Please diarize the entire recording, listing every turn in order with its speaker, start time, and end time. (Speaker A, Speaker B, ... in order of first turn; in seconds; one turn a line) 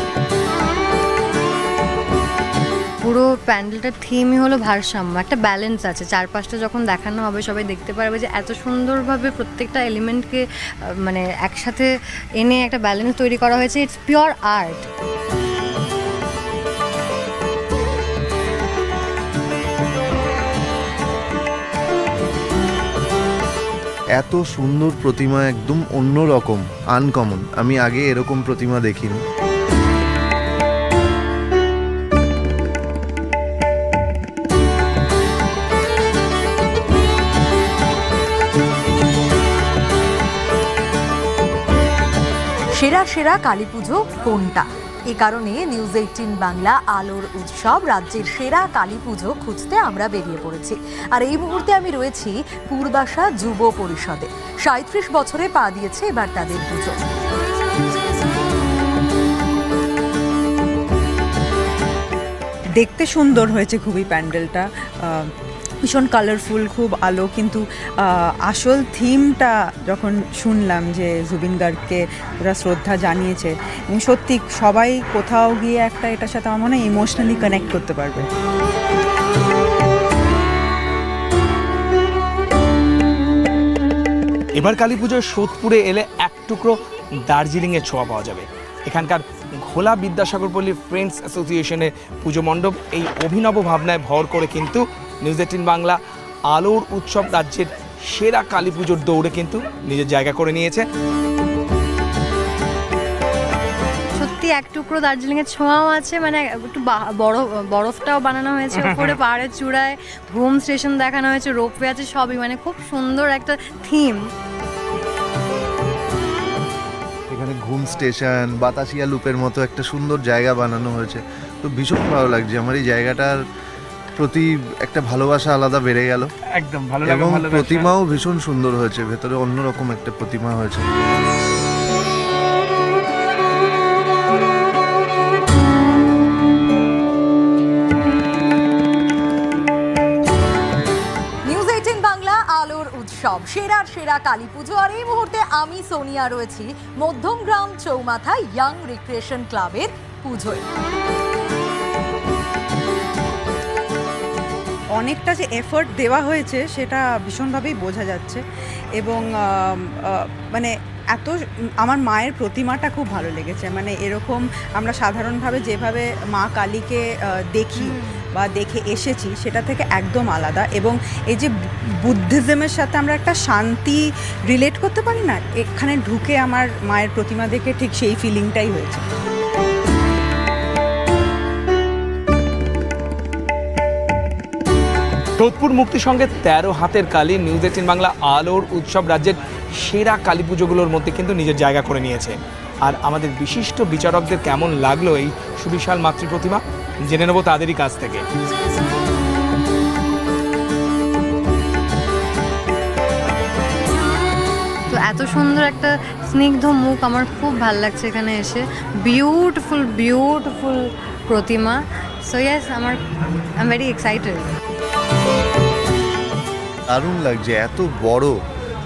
Speaker A: 3.0-10.4
Speaker A: 11.0-11.9
Speaker A: 12.4-14.9
Speaker B: 24.2-29.2
Speaker C: 42.8-57.0
Speaker D: 62.8-65.3
Speaker D: 65.8-78.3
Speaker E: 84.6-96.0
Speaker E: 96.5-100.8
Speaker A: 104.2-114.2
Speaker B: 117.3-123.4
Speaker B: 124.2-126.3
Speaker E: 126.5-128.0
Speaker B: 127.0-130.9
Speaker C: 141.5-150.6
Speaker D: 155.0-158.4
Speaker D: 159.0-171.5
Speaker A: 167.8-168.1
Speaker D: 172.0-179.0
Speaker E: 185.4-198.2
Speaker A: 204.9-213.0
Speaker A: 213.6-214.5
Speaker B: 216.9-218.3